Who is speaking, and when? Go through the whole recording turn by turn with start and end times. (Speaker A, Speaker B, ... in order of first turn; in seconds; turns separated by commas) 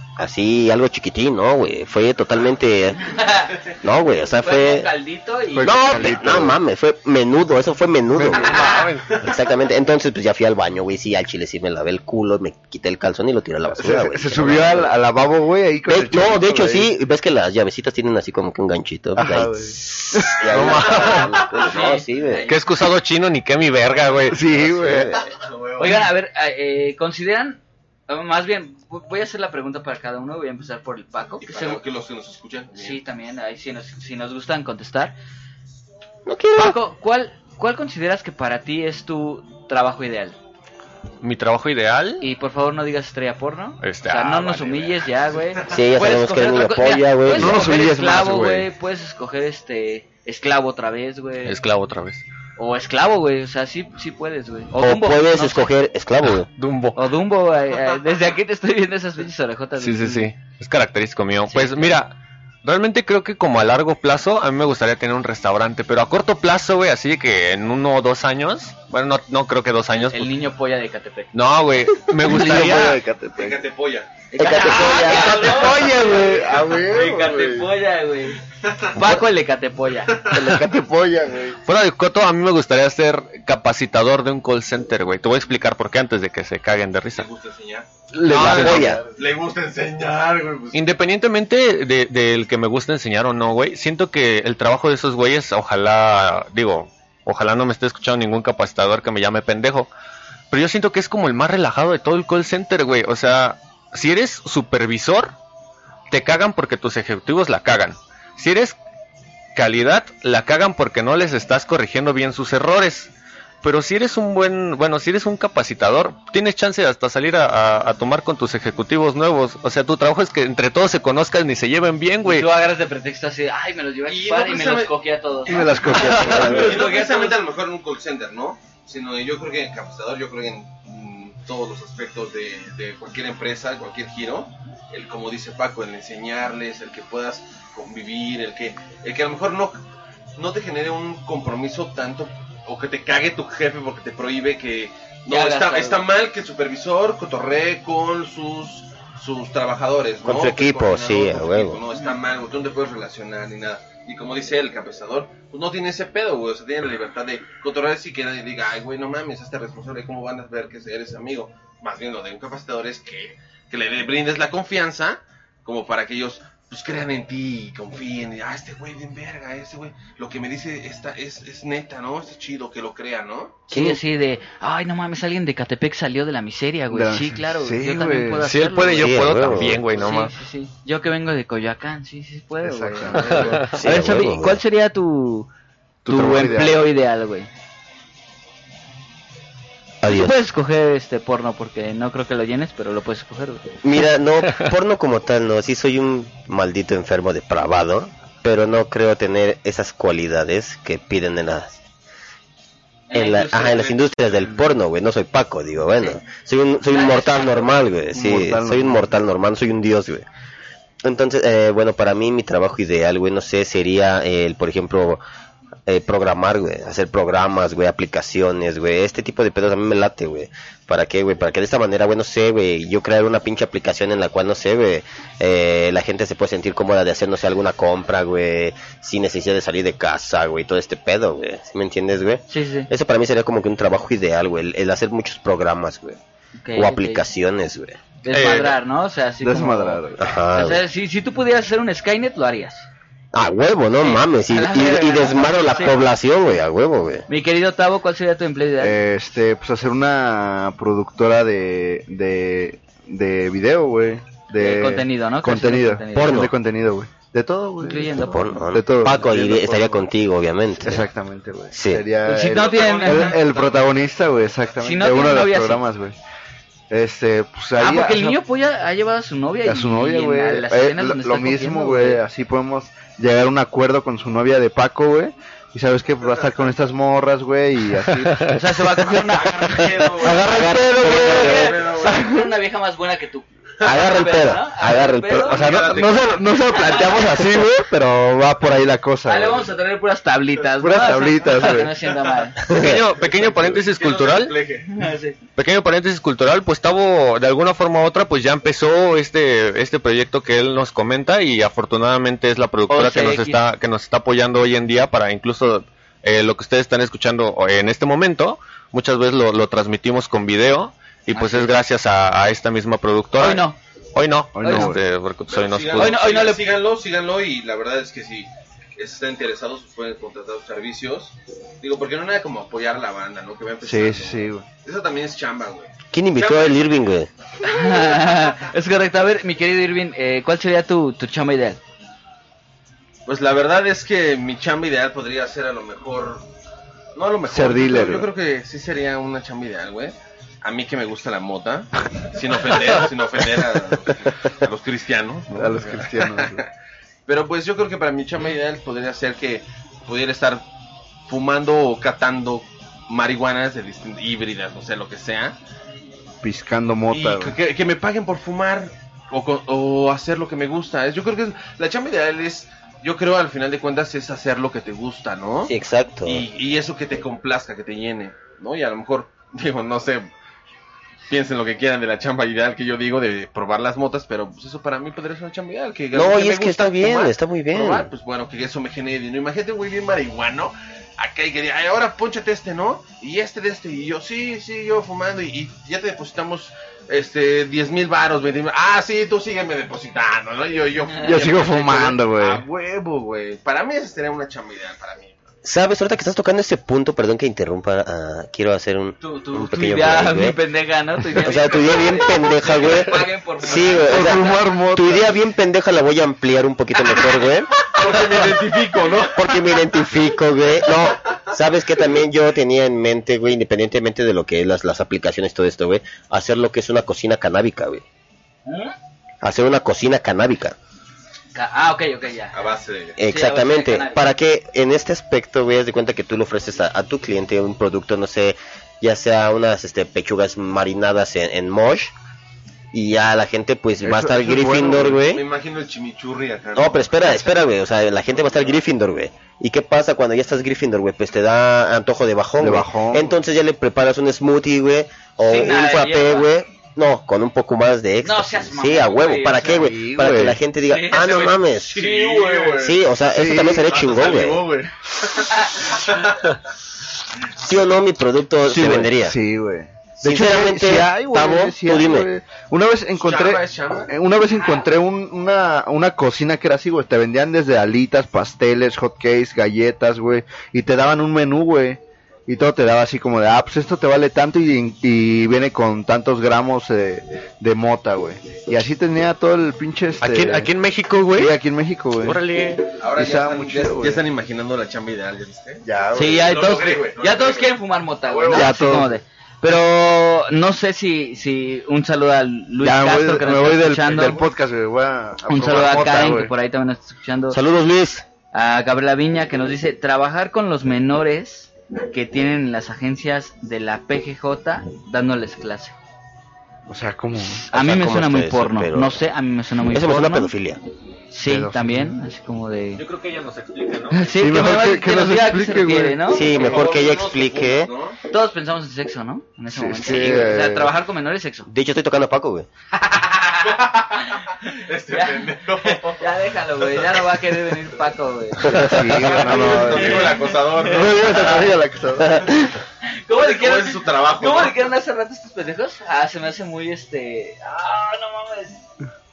Speaker A: 0.2-3.2, Speaker B: 3.1-3.6, Speaker A: 3.7-4.9, Speaker B: 4.3-6.1, Speaker C: 5.5-6.6, Speaker A: 5.6-14.9, Speaker C: 8.1-8.5, Speaker B: 8.4-8.9, Speaker D: 8.4-9.2, Speaker C: 13.7-16.9, Speaker A: 15.9-22.5, Speaker C: 19.2-20.7, Speaker D: 20.3-21.4, Speaker E: 21.1-21.9, Speaker B: 21.6-22.7, Speaker D: 22.5-24.4, Speaker C: 24.3-25.2, Speaker A: 24.5-25.3, Speaker E: 24.5-26.1, Speaker B: 25.8-31.8, Speaker E: 31.4-33.0, Speaker B: 32.7-35.1, Speaker A: 36.3-36.8, Speaker B: 36.5-40.4, Speaker D: 41.2-42.3, Speaker B: 42.2-51.6, Speaker D: 43.8-44.9, Speaker A: 45.7-47.8, Speaker C: 47.3-48.7, Speaker D: 51.5-52.2, Speaker B: 52.6-55.7, Speaker A: 54.8-56.5, Speaker D: 56.2-57.0, Speaker B: 57.0-60.3, Speaker D: 59.8-70.3, Speaker B: 61.5-62.0, Speaker B: 70.0-71.3, Speaker D: 71.3-73.0, Speaker C: 72.2-73.6, Speaker E: 73.3-74.3, Speaker B: 74.3-78.4, Speaker A: 74.4-76.0, Speaker C: 74.7-77.7, Speaker E: 78.6-78.9, Speaker B: 78.9-80.3, Speaker E: 80.1-80.4, Speaker C: 80.3-81.6, Speaker D: 81.7-87.3, Speaker E: 87.1-87.9, Speaker C: 88.1-89.1, Speaker A: 88.2-89.0, Speaker D: 88.3-88.9, Speaker E: 89.1-90.8, Speaker D: 90.7-99.9, Speaker D: 100.5-105.3, Speaker D: 106.1-108.8, Speaker D: 109.5-113.1, Speaker D: 113.6-122.5, Speaker B: 122.2-127.4, Speaker E: 124.1-125.0, Speaker C: 125.5-126.8, Speaker E: 125.5-139.8, Speaker D: 126.0-126.4, Speaker A: 126.2-126.5, Speaker E: 140.4-173.7, Speaker B: 145.3-146.1, Speaker A: 150.2-151.8, Speaker B: 173.7-185.5, Speaker A: 173.7-174.0, Speaker C: 176.9-178.5, Speaker D: 178.4-180.3, Speaker A: 179.0-179.8, Speaker C: 182.6-183.7, Speaker D: 183.3-183.7, Speaker A: 183.7-184.6, Speaker C: 186.1-186.9, Speaker B: 186.1-187.5, Speaker A: 190.0-190.4, Speaker B: 190.1-193.7, Speaker A: 193.8-201.8, Speaker B: 203.1-204.7, Speaker A: 203.1-210.2, Speaker B: 206.9-207.8, Speaker C: 208.1-209.2, Speaker A: 211.0-215.2, Speaker A: 215.9-236.2, Speaker B: 232.5-232.9, Speaker B: 236.6-237.3, Speaker A: 236.8-238.0, Speaker B: 238.2-242.9, Speaker D: 238.3-238.8, Speaker C: 239.4-240.2, Speaker A: 240.2-240.8, Speaker A: 243.3-247.3, Speaker B: 244.0-246.1, Speaker E: 245.5-245.8, Speaker B: 247.3-249.0, Speaker C: 248.8-260.1, Speaker B: 254.6-256.5, Speaker A: 256.1-256.5, Speaker B: 257.8-258.6, Speaker A: 258.2-261.1, Speaker C: 260.8-266.2, Speaker A: 261.7-262.1, Speaker B: 262.2-263.4, Speaker E: 262.5-263.9, Speaker B: 264.8-265.8, Speaker C: 266.9-268.4, Speaker B: 267.8-272.2, Speaker C: 269.6-278.5, Speaker B: 278.5-285.6, Speaker E: 279.2-282.3, Speaker C: 280.2-282.5, Speaker A: 280.4-281.4, Speaker E: 283.8-284.1, Speaker A: 283.8-285.8, Speaker E: 285.3-287.1, Speaker C: 285.4-289.7, Speaker B: 286.7-287.4, Speaker B: 289.3-292.6, Speaker C: 290.8-291.9, Speaker A: 292.6-293.0, Speaker D: 292.7-294.6, Speaker E: 293.2-294.9, Speaker B: 294.9-295.4, Speaker D: 295.6-316.2, Speaker B: 302.9-303.6, Speaker B: 311.3-311.7, Speaker B: 313.4-313.8, Speaker C: 314.6-315.0, Speaker B: 314.6-314.9, Speaker E: 315.5-326.9, Speaker B: 316.0-316.6, Speaker C: 323.8-324.6, Speaker A: 326.1-327.3, Speaker B: 327.6-331.8, Speaker E: 333.3-336.5, Speaker E: 337.1-346.7, Speaker C: 337.5-338.3, Speaker C: 345.5-346.6, Speaker E: 347.3-350.6, Speaker E: 351.3-355.6, Speaker C: 356.4-357.6, Speaker E: 357.1-365.7, Speaker A: 365.6-366.4, Speaker E: 366.2-370.3, Speaker E: 371.3-395.4, Speaker A: 376.1-378.1, Speaker C: 391.2-392.6, Speaker A: 395.6-400.6, Speaker B: 399.2-404.4, Speaker A: 401.3-407.9, Speaker C: 404.1-405.3, Speaker E: 407.8-409.8, Speaker A: 409.3-418.0, Speaker B: 418.7-418.9, Speaker A: 419.4-420.8, Speaker B: 421.5-422.6, Speaker E: 422.5-423.2, Speaker A: 423.2-432.1, Speaker B: 423.2-424.3, Speaker A: 432.9-435.5, Speaker C: 434.0-435.2, Speaker E: 435.2-437.6, Speaker A: 436.8-452.0, Speaker C: 442.6-443.4, Speaker B: 445.4-446.5, Speaker B: 448.2-449.9, Speaker C: 449.6-450.6, Speaker B: 450.9-452.7, Speaker E: 451.8-453.1, Speaker A: 452.7-454.7, Speaker C: 453.3-453.9, Speaker E: 453.8-456.6, Speaker B: 455.5-456.1, Speaker A: 457.6-459.4, Speaker C: 458.6-480.7, Speaker A: 460.2-462.3, Speaker E: 463.2-464.1, Speaker B: 464.5-464.9, Speaker D: 480.2-481.6, Speaker C: 481.3-482.4, Speaker D: 482.2-482.9, Speaker E: 483.0-485.8, Speaker C: 483.2-484.2, Speaker C: 485.8-486.5, Speaker B: 486.1-494.4, Speaker E: 486.4-488.9, Speaker C: 488.5-489.2, Speaker C: 492.8-496.5, Speaker B: 495.5-497.6, Speaker A: 497.5-498.2, Speaker B: 498.5-506.0, Speaker C: 506.9-507.6, Speaker B: 507.4-510.5, Speaker A: 507.7-509.2, Speaker A: 509.9-510.8, Speaker B: 511.3-513.0, Speaker C: 511.5-512.2, Speaker D: 513.0-514.4, Speaker B: 514.1-516.7, Speaker C: 514.4-516.4, Speaker A: 516.3-517.9, Speaker E: 516.4-518.2, Speaker B: 518.3-521.7, Speaker C: 519.7-520.9, Speaker A: 520.1-520.4, Speaker A: 521.7-522.7, Speaker B: 522.9-531.7, Speaker E: 523.6-526.2, Speaker E: 526.8-527.3, Speaker C: 528.6-532.5, Speaker E: 529.1-531.6, Speaker A: 532.2-532.6, Speaker B: 533.0-538.8, Speaker E: 533.3-534.9